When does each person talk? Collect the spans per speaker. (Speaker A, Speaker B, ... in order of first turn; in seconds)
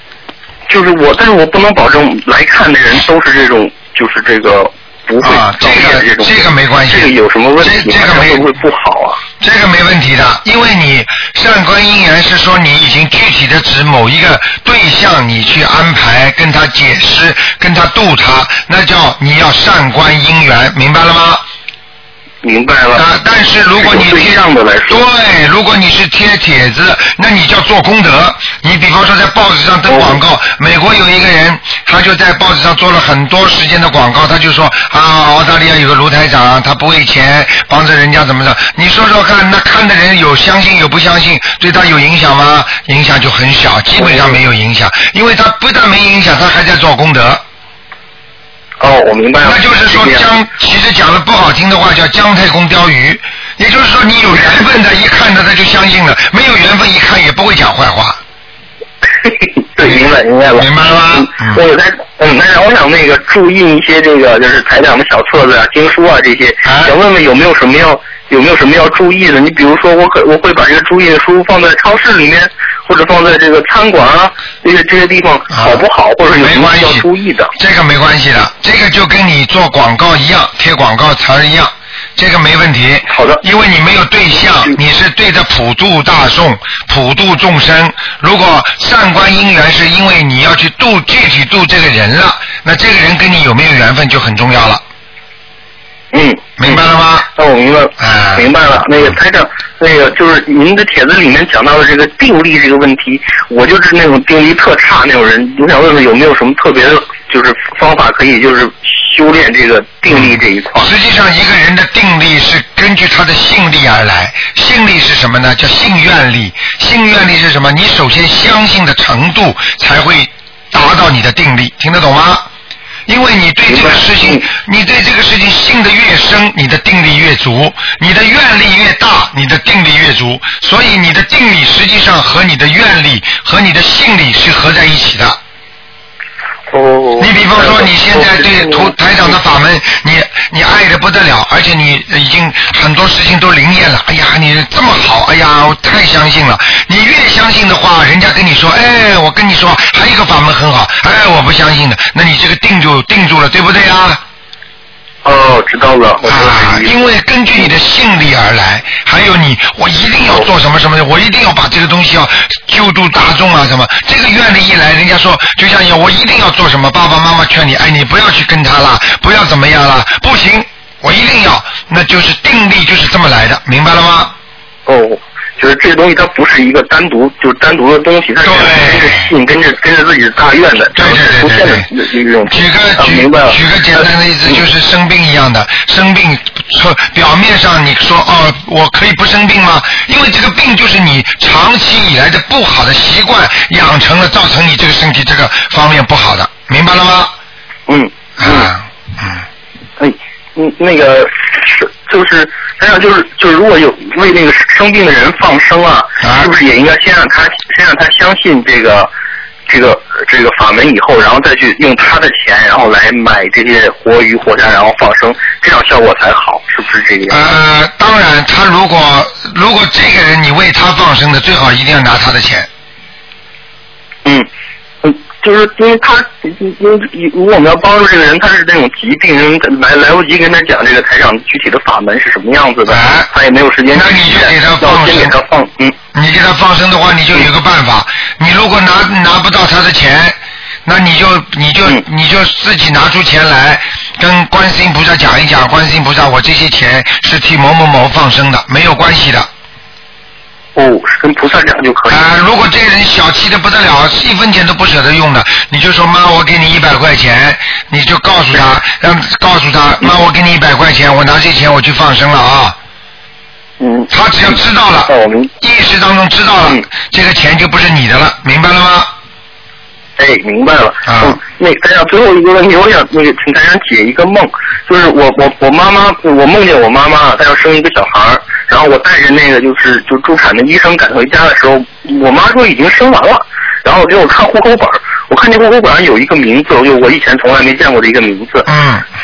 Speaker A: 0.7-9.2, 22.4-23.0, 23.8-25.0, 29.9-30.2, 44.0-44.4, 48.8-50.2, 59.2-77.5, 83.1-83.4, 96.1-110.9, 123.7-124.5, 136.7-139.1, 155.2-157.0, 174.9-184.6, 197.9-198.7, 200.0-209.1, 209.7-217.4, 225.0-236.0, 250.8-252.3, 263.8-264.6, 265.1-265.5, 270.2-288.7
Speaker B: 5.2-8.4, 9.4-21.4, 22.9-47.4, 49.4-58.2, 59.8-61.6, 66.7-67.0, 75.5-94.8, 96.6-97.3, 98.0-98.5, 110.1-122.5, 123.1-135.4, 137.2-154.2, 156.3-174.3, 178.4-179.3, 180.9-181.9, 182.5-197.3, 198.4-199.4, 206.2-206.5, 217.3-222.7, 232.9-233.3, 233.9-235.4, 236.1-249.5, 252.1-262.8, 264.1-269.1, 271.1-271.4, 288.7-289.1